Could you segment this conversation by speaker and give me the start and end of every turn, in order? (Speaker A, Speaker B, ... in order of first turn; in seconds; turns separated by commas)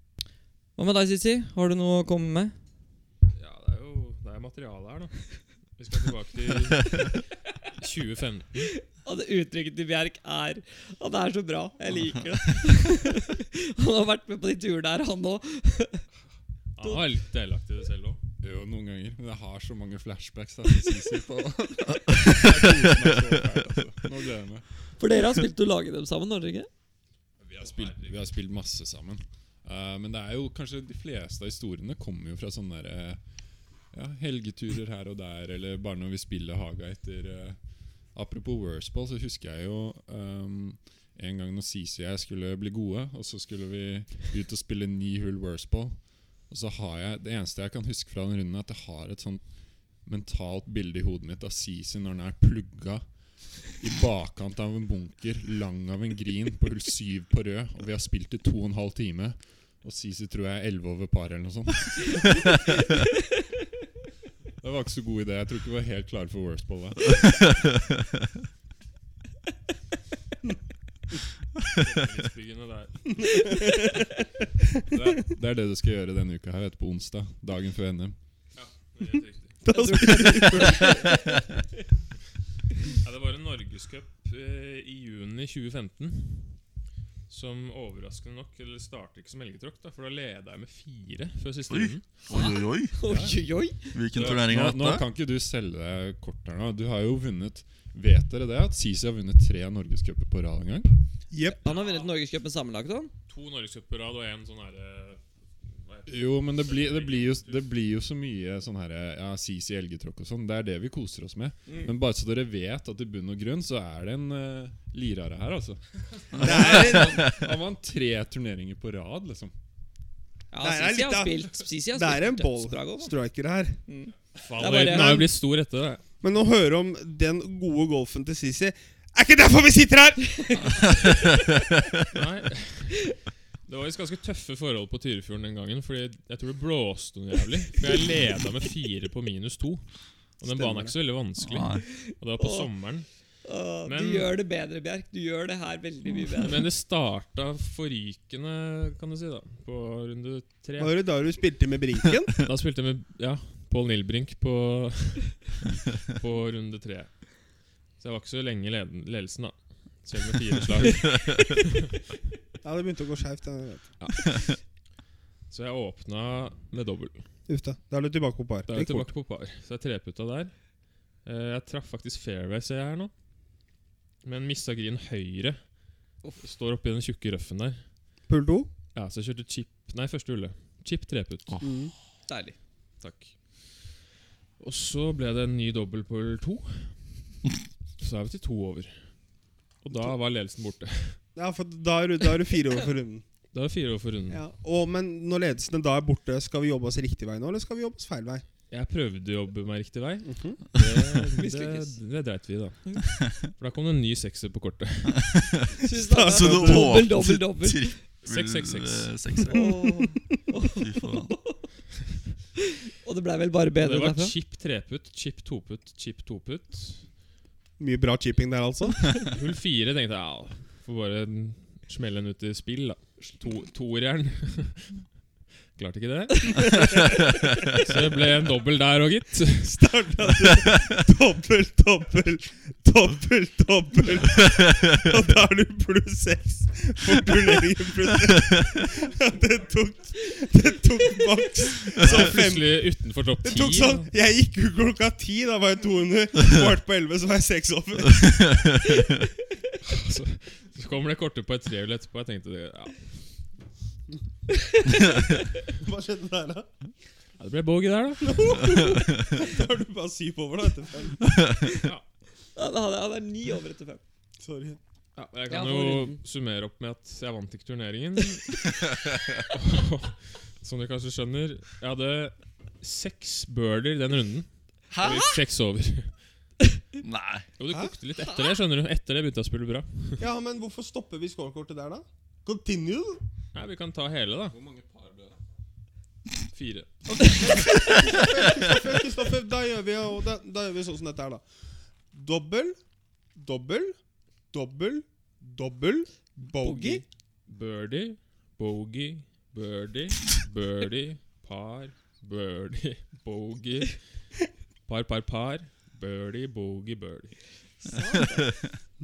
Speaker A: 0.8-2.6, Speaker B: 3.4-7.3, Speaker B: 7.8-8.7, Speaker A: 8.9-16.0, Speaker B: 16.8-18.2, Speaker C: 18.4-24.7, Speaker A: 25.0-26.7, Speaker B: 27.4-28.2, Speaker C: 27.6-33.2, Speaker C: 33.9-37.6, Speaker C: 38.1-46.0, Speaker C: 46.5-49.4, Speaker C: 50.0-53.0, Speaker C: 53.6-62.9, Speaker C: 64.6-67.5, Speaker B: 71.7-73.6, Speaker C: 74.9-78.2, Speaker B: 78.5-79.6, Speaker D: 79.7-81.1, Speaker A: 79.7-81.4, Speaker B: 82.9-86.6, Speaker B: 87.3-92.1, Speaker E: 91.7-92.9, Speaker A: 92.3-94.0, Speaker B: 93.1-93.3, Speaker E: 93.9-95.1, Speaker B: 94.1-94.5, Speaker C: 94.2-100.9, Speaker D: 101.3-101.6, Speaker A: 101.5-103.1, Speaker B: 101.6-102.1, Speaker B: 103.3-107.6, Speaker C: 106.1-119.5, Speaker A: 111.7-111.9, Speaker D: 116.3-117.4, Speaker E: 116.4-117.5, Speaker A: 120.5-123.1, Speaker D: 120.6-123.8, Speaker A: 123.9-125.3, Speaker B: 124.3-126.0, Speaker D: 124.7-125.3, Speaker D: 126.2-131.2, Speaker E: 130.9-131.7, Speaker B: 132.1-139.9, Speaker B: 140.4-143.1, Speaker D: 140.4-140.9, Speaker E: 141.4-141.8, Speaker A: 142.4-142.7, Speaker A: 143.4-146.6, Speaker B: 143.9-144.3, Speaker B: 146.4-151.0, Speaker D: 150.8-152.4, Speaker B: 152.4-157.2, Speaker B: 158.0-161.8, Speaker D: 162.6-163.9, Speaker B: 164.0-164.3, Speaker B: 165.5-167.2, Speaker D: 167.5-169.1, Speaker B: 168.7-170.6, Speaker B: 171.2-173.1, Speaker B: 174.2-175.6, Speaker B: 176.4-177.8, Speaker D: 178.3-178.7, Speaker B: 178.9-181.6, Speaker D: 181.6-181.9, Speaker A: 182.3-182.6, Speaker B: 183.0-183.9, Speaker B: 184.6-187.0, Speaker B: 188.0-189.1, Speaker B: 189.8-191.2, Speaker D: 191.3-193.2, Speaker B: 193.5-194.4, Speaker D: 194.3-198.4, Speaker B: 198.7-205.6, Speaker D: 200.2-200.6, Speaker A: 201.4-202.0, Speaker E: 205.2-205.6, Speaker A: 205.8-208.0, Speaker D: 205.8-207.1, Speaker E: 206.2-209.7, Speaker B: 208.2-209.4, Speaker A: 209.5-211.6, Speaker D: 209.5-210.2, Speaker E: 210.7-211.3, Speaker A: 213.0-214.3, Speaker B: 213.8-217.1, Speaker D: 217.8-219.1, Speaker B: 219.2-225.1, Speaker B: 225.7-229.8, Speaker D: 229.6-242.8, Speaker B: 242.0-244.1, Speaker D: 243.4-248.8, Speaker B: 249.8-253.1, Speaker A: 254.5-255.0, Speaker D: 255.7-256.7, Speaker B: 257.4-258.6, Speaker D: 258.2-261.2, Speaker A: 262.6-264.0, Speaker D: 264.4-264.8, Speaker B: 265.2-268.8, Speaker A: 265.5-266.2, Speaker E: 268.9-269.4, Speaker B: 269.5-276.1, Speaker E: 274.9-275.4, Speaker E: 277.0-277.5, Speaker B: 277.6-280.2, Speaker D: 280.2-283.2, Speaker B: 283.5-284.6, Speaker C: 284.5-285.4, Speaker B: 286.5-287.3, Speaker D: 287.2-291.4, Speaker D: 292.1-292.8, Speaker D: 293.4-294.0, Speaker D: 294.5-297.0, Speaker A: 296.6-297.1, Speaker B: 297.5-304.0, Speaker B: 304.9-307.4, Speaker A: 307.8-308.5